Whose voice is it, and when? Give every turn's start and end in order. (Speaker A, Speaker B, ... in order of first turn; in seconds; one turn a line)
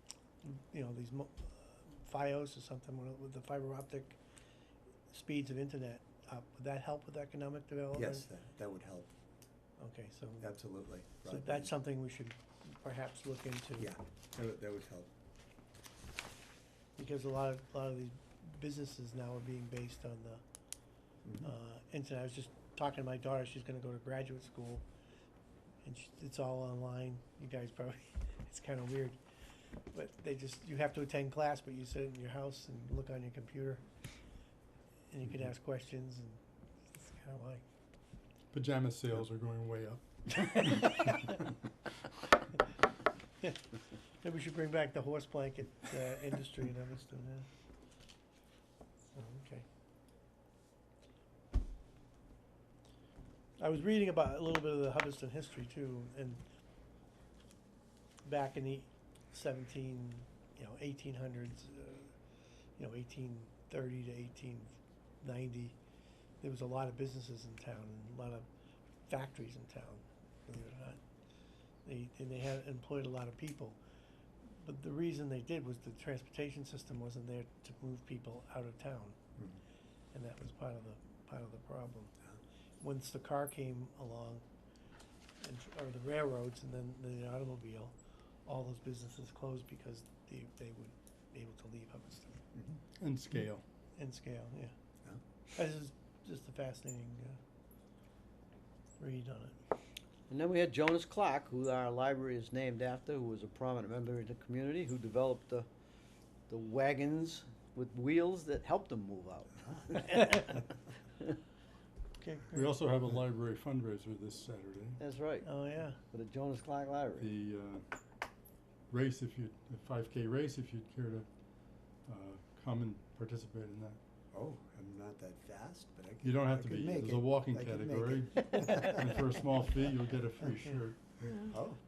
Speaker A: 0.4-4.2
Speaker A: 5.1-8.2
Speaker B: 8.0-9.1
Speaker A: 9.8-10.5
Speaker B: 10.4-11.7
Speaker A: 11.2-13.9
Speaker B: 13.8-15.1
Speaker A: 17.0-20.4
Speaker B: 21.2-21.5
Speaker A: 21.4-24.8
Speaker A: 25.8-29.2
Speaker A: 29.9-33.9
Speaker A: 35.1-37.6
Speaker C: 38.5-41.4
Speaker A: 40.5-41.4
Speaker A: 44.2-47.5
Speaker A: 49.1-49.6
Speaker A: 53.6-56.4
Speaker A: 58.2-62.1
Speaker A: 62.8-65.8
Speaker A: 66.4-68.5
Speaker A: 69.1-71.0
Speaker A: 71.8-73.8
Speaker A: 74.4-79.2
Speaker A: 80.1-82.1
Speaker A: 82.8-84.4
Speaker A: 85.4-92.5
Speaker C: 93.0-93.6
Speaker A: 94.0-94.7
Speaker A: 95.5-97.4
Speaker A: 99.0-99.6
Speaker D: 100.3-105.7
Speaker D: 106.5-110.6
Speaker A: 112.2-112.8
Speaker C: 112.5-115.0
Speaker D: 115.0-115.5
Speaker A: 115.4-116.0
Speaker D: 116.1-117.3
Speaker C: 117.2-117.8
Speaker C: 118.9-121.3
Speaker C: 122.0-124.0
Speaker B: 124.3-129.0
Speaker C: 126.2-131.4
Speaker B: 131.5-131.8